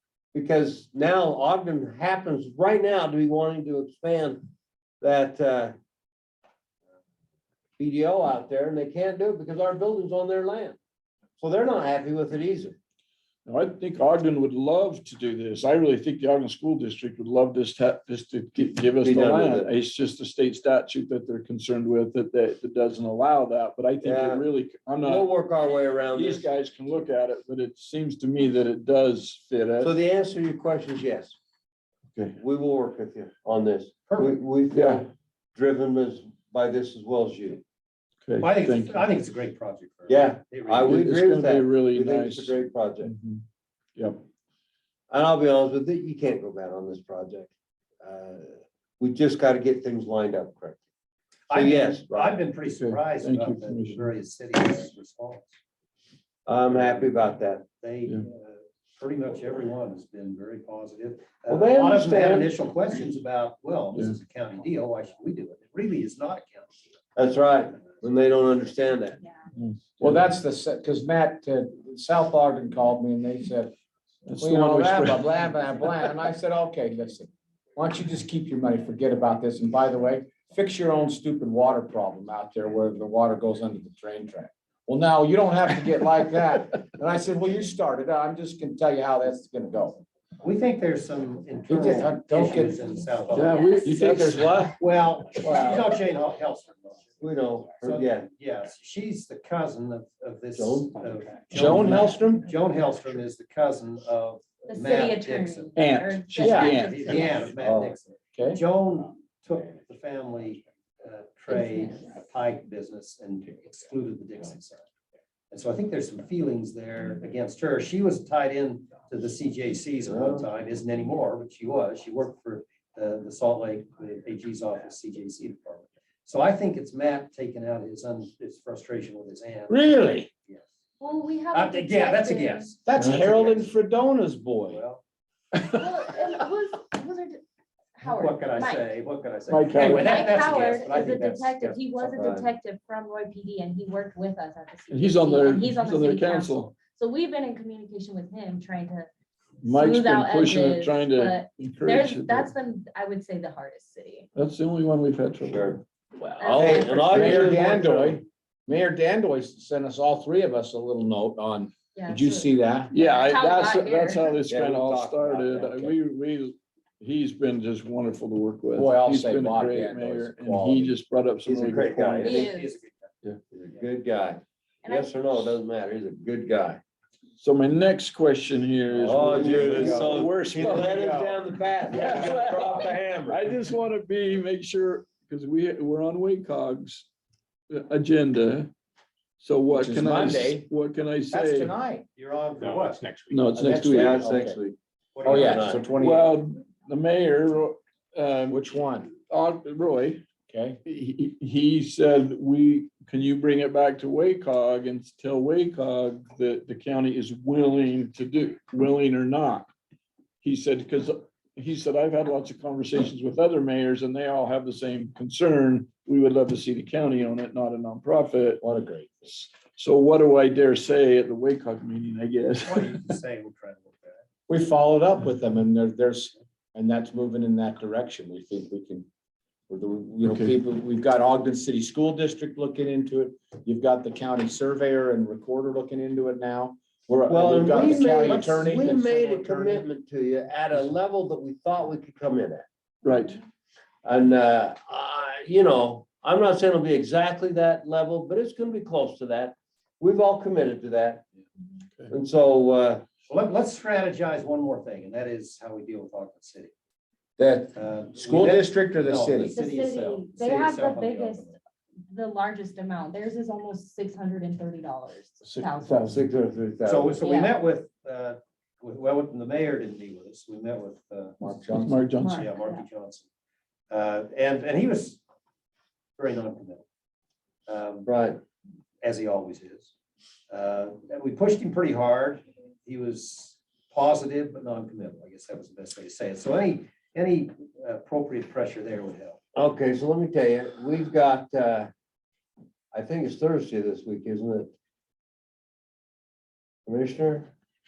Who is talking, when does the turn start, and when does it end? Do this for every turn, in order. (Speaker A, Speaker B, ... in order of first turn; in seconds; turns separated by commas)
Speaker A: 0.3-4.5, Speaker A: 5.0-5.7, Speaker A: 7.8-10.8, Speaker A: 11.4-12.8, Speaker B: 13.4-25.3, Speaker A: 19.0-19.7, Speaker A: 24.0-24.4, Speaker A: 25.0-26.4, Speaker B: 26.1-29.9, Speaker A: 29.8-31.4, Speaker A: 32.4-37.6, Speaker C: 34.1-34.3, Speaker B: 34.7-35.0, Speaker B: 38.2-39.1, Speaker C: 38.4-41.0, Speaker A: 40.1-43.1, Speaker B: 40.8-43.4, Speaker B: 44.0-44.2, Speaker A: 45.1-50.8, Speaker C: 51.5-55.5, Speaker A: 51.5-52.1, Speaker B: 52.8-54.1, Speaker A: 56.5-57.6, Speaker C: 57.8-67.0, Speaker A: 61.5-62.5, Speaker A: 67.2-69.2, Speaker B: 69.6-70.2, Speaker D: 70.0-73.7, Speaker B: 74.2-75.3, Speaker D: 74.4-90.0, Speaker C: 90.4-93.9, Speaker D: 91.7-92.8, Speaker E: 93.3-94.0, Speaker B: 93.3-95.9, Speaker D: 93.8-94.7, Speaker C: 94.7-97.2, Speaker A: 97.2-98.3, Speaker C: 97.8-105.7, Speaker A: 100.5-100.9, Speaker D: 101.5-102.5, Speaker E: 104.7-107.2, Speaker D: 105.8-107.1, Speaker B: 106.3-106.7, Speaker C: 106.7-114.9, Speaker A: 107.4-108.0, Speaker D: 108.3-108.6, Speaker E: 111.5-112.1, Speaker C: 115.5-129.8, Speaker A: 120.2-120.4, Speaker D: 129.7-130.3, Speaker E: 131.0-132.7, Speaker C: 131.5-133.7, Speaker D: 132.8-134.8, Speaker C: 134.7-135.0, Speaker E: 135.7-137.4, Speaker E: 137.9-138.9, Speaker C: 138.0-142.2, Speaker B: 139.5-140.1, Speaker E: 139.8-149.1, Speaker A: 142.1-142.5, Speaker B: 144.9-146.7, Speaker B: 149.6-152.5, Speaker E: 149.7-154.3, Speaker B: 154.3-155.8, Speaker A: 155.4-155.8, Speaker E: 156.4-157.6, Speaker A: 156.4-158.2, Speaker D: 156.5-162.9, Speaker B: 157.1-157.4, Speaker E: 161.9-164.3, Speaker B: 162.9-172.4, Speaker A: 164.5-165.9, Speaker D: 168.7-171.0, Speaker A: 171.4-172.5, Speaker C: 172.2-173.1, Speaker E: 172.2-172.8, Speaker A: 173.5-176.8, Speaker E: 174.8-175.1, Speaker B: 177.4-181.0, Speaker A: 178.9-183.5, Speaker D: 179.3-180.2, Speaker B: 181.9-187.1, Speaker B: 187.7-188.7, Speaker B: 189.4-191.7, Speaker D: 189.7-190.7, Speaker D: 191.3-192.1, Speaker C: 192.2-193.1, Speaker B: 193.2-194.2, Speaker D: 193.5-194.6, Speaker A: 193.9-195.8, Speaker C: 195.1-195.8, Speaker D: 195.2-196.3, Speaker B: 196.0-200.2, Speaker D: 198.5-199.1, Speaker D: 200.5-200.8, Speaker B: 200.8-209.7, Speaker B: 210.4-218.6, Speaker D: 218.6-219.3, Speaker B: 219.3-223.1, Speaker C: 222.6-224.2, Speaker D: 224.5-229.1, Speaker D: 229.7-239.8, Speaker B: 230.3-230.5, Speaker A: 237.3-242.7, Speaker B: 243.0-243.4, Speaker A: 244.0-251.2, Speaker A: 252.1-253.0, Speaker C: 253.3-256.7, Speaker D: 257.4-259.6, Speaker C: 257.7-261.6, Speaker E: 259.5-261.5, Speaker E: 262.1-266.2, Speaker B: 265.4-266.2, Speaker A: 266.0-267.2, Speaker C: 266.8-271.6, Speaker E: 267.2-267.6, Speaker D: 271.4-272.0, Speaker B: 271.7-272.5, Speaker E: 272.2-272.9, Speaker C: 272.3-273.3, Speaker C: 273.9-275.2, Speaker C: 276.2-276.8, Speaker C: 277.7-278.1, Speaker A: 278.0-278.4, Speaker C: 279.0-279.9, Speaker C: 280.5-289.4, Speaker A: 289.5-291.9, Speaker A: 292.9-294.7, Speaker A: 296.9-297.5